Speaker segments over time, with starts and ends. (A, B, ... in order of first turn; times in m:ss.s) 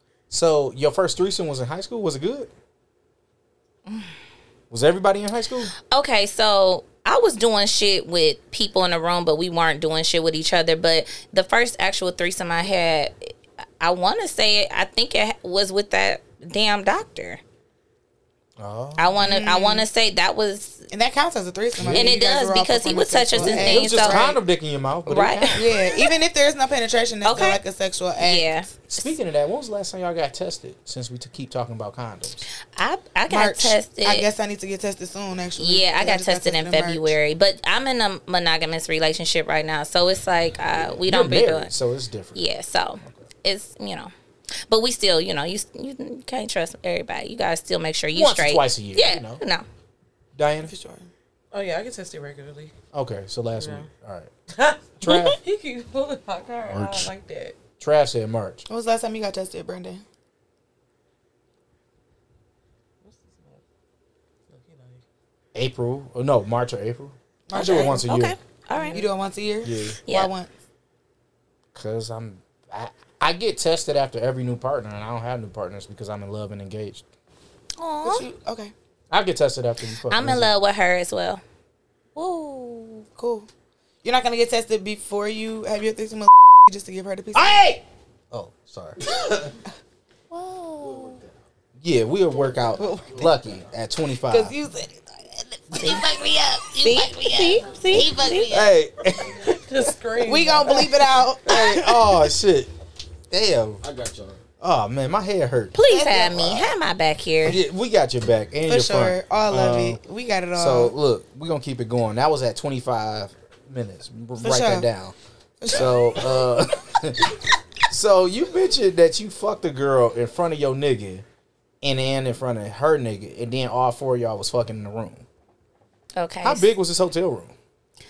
0:00.3-0:02.5 A
0:04.7-0:05.7 A
0:05.9-0:17.4 B
0:18.6-0:19.2 A
0:19.0-0:20.9 B
0:19.2-0:19.9 C
0:20.9-0:24.4 C
0:21.8-0:22.1 A
0:21.9-0:24.3 B
0:23.4-0:25.6 A
0:25.1-0:26.1 B
0:25.5-0:28.6 C
0:27.2-0:27.6 B
0:28.2-0:29.1 B
0:28.9-0:32.4 A
0:32.8-0:34.3 B
0:33.3-0:37.2 C
0:35.6-0:41.7 B
0:40.9-0:42.4 A
0:42.4-0:44.1 B
0:44.7-0:49.6 B
0:48.1-0:49.4 A
0:50.4-0:50.7 A
0:50.6-0:51.1 C
0:51.5-0:52.7 D
0:52.9-0:54.3 A
0:53.6-0:53.9 D
0:54.5-0:57.6 D
0:55.0-0:55.4 A
0:56.7-0:57.1 A
0:57.8-0:58.6 A
0:58.7-1:00.0 C
1:03.0-1:03.6 D
1:04.5-1:05.0 D
1:05.6-1:08.4 A
1:07.5-1:08.1 C
1:07.5-1:09.0 B
1:08.7-1:09.0 D
1:08.9-1:10.5 C
1:09.6-1:10.0 A
1:10.1-1:10.3 B
1:11.8-1:17.0 A
1:17.8-1:18.3 B
1:18.0-1:18.7 C
1:19.1-1:20.5 A
1:20.1-1:21.4 B
1:22.2-1:23.0 B
1:23.2-1:23.5 C
1:24.0-1:27.7 C
1:27.3-1:29.5 A
1:30.8-1:31.3 E
1:31.8-1:34.6 A
1:32.4-1:33.7 E
1:32.8-1:33.2 C
1:34.2-1:38.7 C
1:36.8-1:38.5 B
1:38.5-1:39.6 A
1:39.5-1:41.0 D
1:40.2-1:42.3 C
1:41.4-1:42.7 A
1:43.3-1:43.8 A
1:43.8-1:44.4 E
1:44.6-1:45.8 A
1:45.7-1:47.6 B
1:45.9-1:46.7 C
1:47.4-1:50.0 A
1:48.7-1:50.9 C
1:50.6-1:55.2 A
1:54.4-1:54.9 C
1:55.6-1:56.4 C
1:55.7-1:57.4 A
1:57.9-2:01.2 A
2:01.8-2:05.3 A
2:06.2-2:06.7 B
2:06.4-2:07.5 A